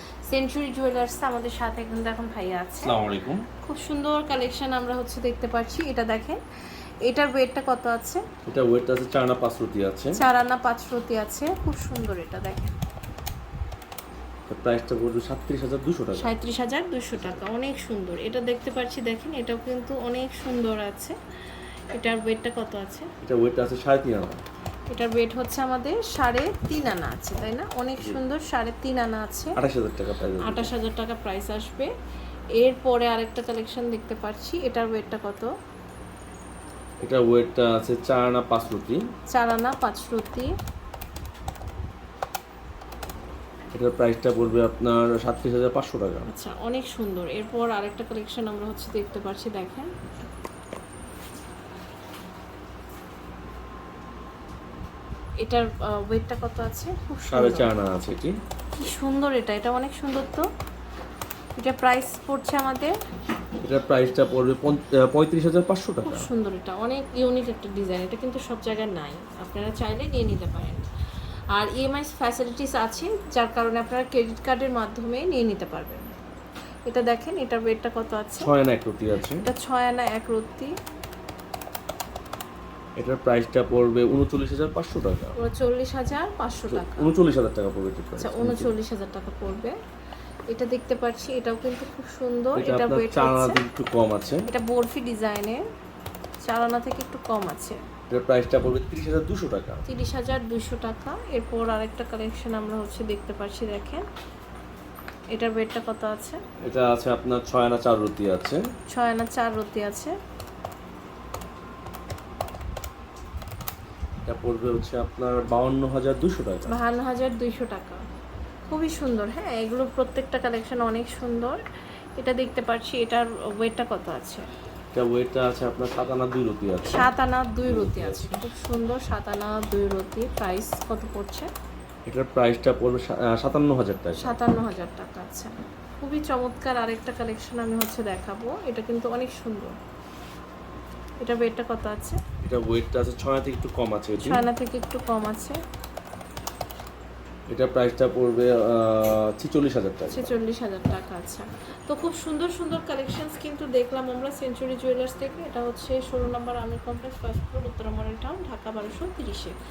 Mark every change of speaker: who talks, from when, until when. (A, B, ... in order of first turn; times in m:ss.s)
0:00.3-0:02.9 A
0:02.8-0:03.4 B
0:03.6-0:06.4 A
0:07.0-0:08.2 A
0:08.5-0:10.1 B
0:10.2-0:12.7 A
0:14.5-0:16.3 B
0:16.2-0:21.2 A
0:17.1-0:17.4 B
0:21.9-0:23.1 A
0:23.2-0:24.4 B
0:24.9-0:29.6 A
0:29.6-0:30.7 B
0:30.4-0:31.9 A
0:32.6-0:35.5 A
0:37.0-0:39.0 B
0:39.3-0:40.5 A
0:43.7-0:46.3 B
0:46.3-0:49.9 A
0:55.4-0:57.7 A
0:57.3-0:58.3 B
0:58.8-1:00.4 A
1:01.6-1:02.9 A
1:03.6-1:06.3 B
1:06.0-1:10.9 A
1:11.5-1:16.0 A
1:16.9-1:18.5 A
1:18.4-1:19.4 B
1:19.4-1:20.7 A
1:23.0-1:25.4 B
1:25.4-1:27.1 A
1:26.7-1:28.7 B
1:28.2-1:29.8 A
1:30.5-1:33.6 A
1:32.6-1:34.4 B
1:34.5-1:35.6 A
1:36.4-1:37.8 A
1:38.1-1:39.8 B
1:39.9-1:44.0 A
1:45.3-1:46.4 A
1:46.6-1:48.6 B
1:48.9-1:50.2 A
1:54.2-1:56.8 B
1:56.7-1:58.0 A
1:58.7-2:01.6 A
2:02.2-2:04.4 A
2:04.9-2:07.1 B
2:06.8-2:11.5 A
2:07.6-2:08.4 B
2:12.1-2:14.3 B
2:14.2-2:19.7 A
2:21.2-2:22.2 A
2:22.4-2:24.4 B
2:24.2-2:25.6 A
2:27.5-2:30.3 B
2:30.1-2:39.6 A